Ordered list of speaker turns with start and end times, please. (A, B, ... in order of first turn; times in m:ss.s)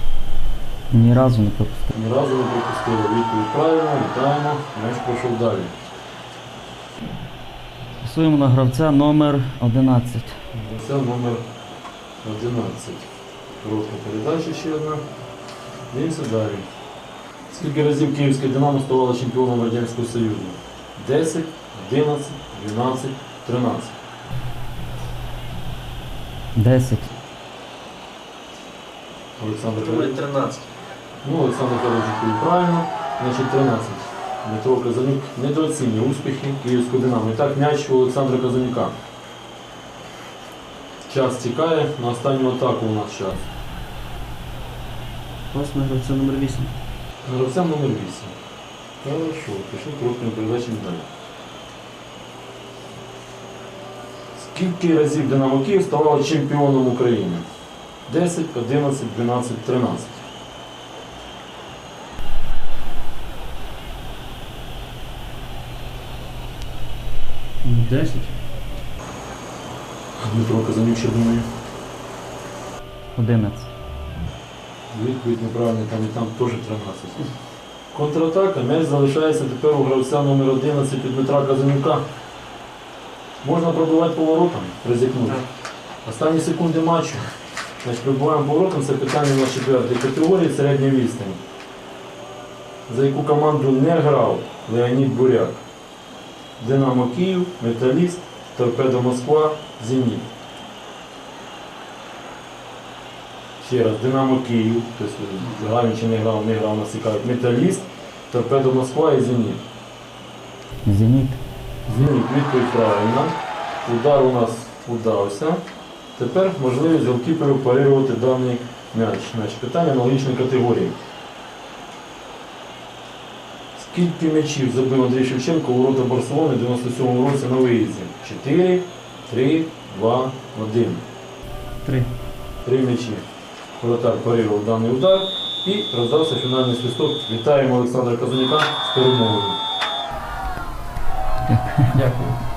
0:00.9-0:01.9 A
0:01.9-0:05.7 B
0:08.0-0:10.3 A
0:10.5-0:11.4 B
0:12.2-0:13.0 B
0:13.6-0:15.0 B
0:15.9-0:16.7 B
0:17.5-0:24.0 B
0:26.5-0:27.1 A
0:29.4-0:30.2 B
0:29.8-0:30.7 C
0:31.2-0:38.9 B
0:41.0-0:43.5 B
0:45.5-0:46.7 C
0:47.2-0:48.3 B
0:49.0-0:51.1 B
0:54.3-0:57.4 B
0:58.1-1:00.2 B
1:07.6-1:08.3 C
1:10.2-1:11.4 B
1:13.1-1:13.7 A
1:14.9-1:17.3 B
1:17.9-1:22.0 B
1:23.4-1:25.4 B
1:26.0-1:27.2 B
1:27.8-1:31.4 B
1:32.9-1:35.6 B
1:36.6-1:40.3 B
1:43.6-1:49.6 B
1:50.8-1:51.4 A
1:51.9-1:55.6 B
1:56.2-2:01.0 B
2:03.7-2:11.0 B
2:11.8-2:12.1 C
2:12.6-2:13.2 B
2:13.8-2:19.6 B
2:21.9-2:22.4 C